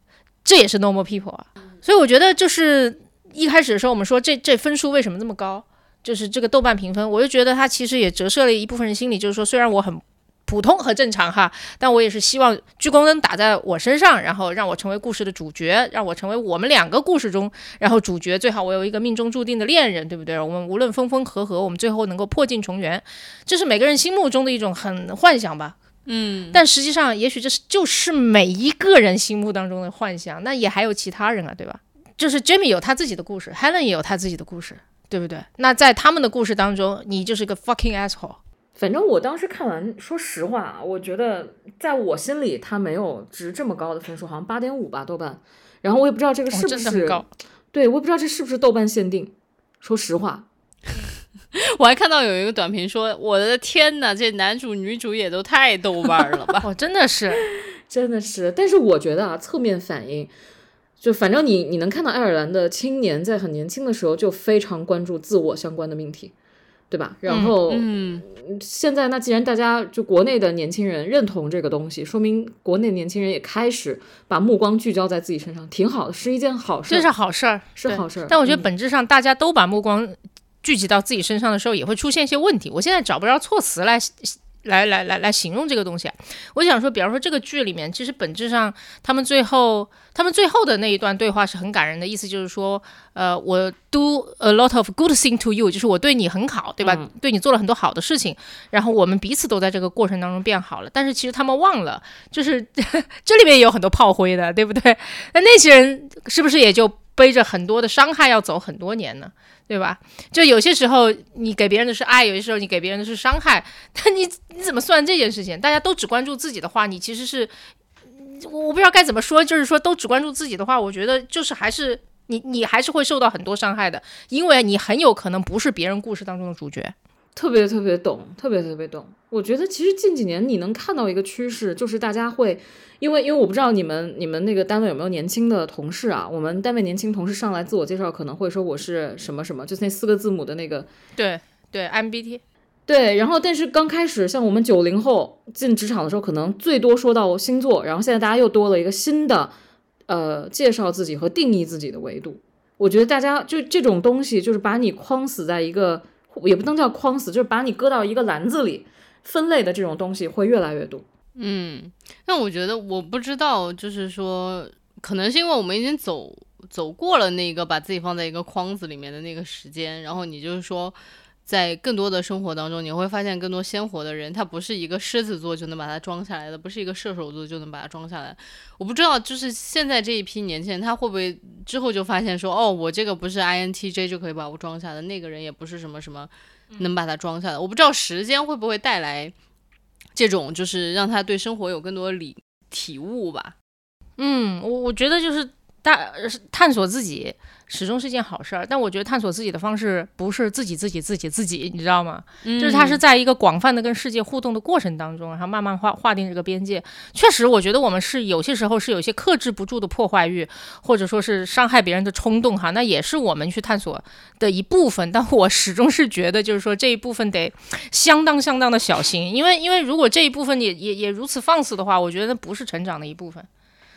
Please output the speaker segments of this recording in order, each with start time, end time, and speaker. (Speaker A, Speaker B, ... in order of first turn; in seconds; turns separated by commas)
Speaker A: 0.5-25.8, Speaker B: 26.1-26.6, Speaker A: 26.5-38.4, Speaker C: 38.8-50.5, Speaker A: 46.5-47.3, Speaker B: 51.5-56.7, Speaker A: 56.6-57.4, Speaker C: 57.9-60.3, Speaker C: 61.0-66.3, Speaker C: 66.9-77.1, Speaker A: 67.3-67.5, Speaker B: 67.7-68.2, Speaker A: 76.9-117.5, Speaker C: 77.8-78.7, Speaker C: 96.8-97.1, Speaker A: 118.1-126.9, Speaker C: 127.4-140.9, Speaker A: 141.2-142.4, Speaker C: 142.9-149.5, Speaker C: 150.1-161.1, Speaker B: 161.4-189.3, Speaker B: 190.2-193.6, Speaker A: 194.2-223.5, Speaker B: 202.4-203.0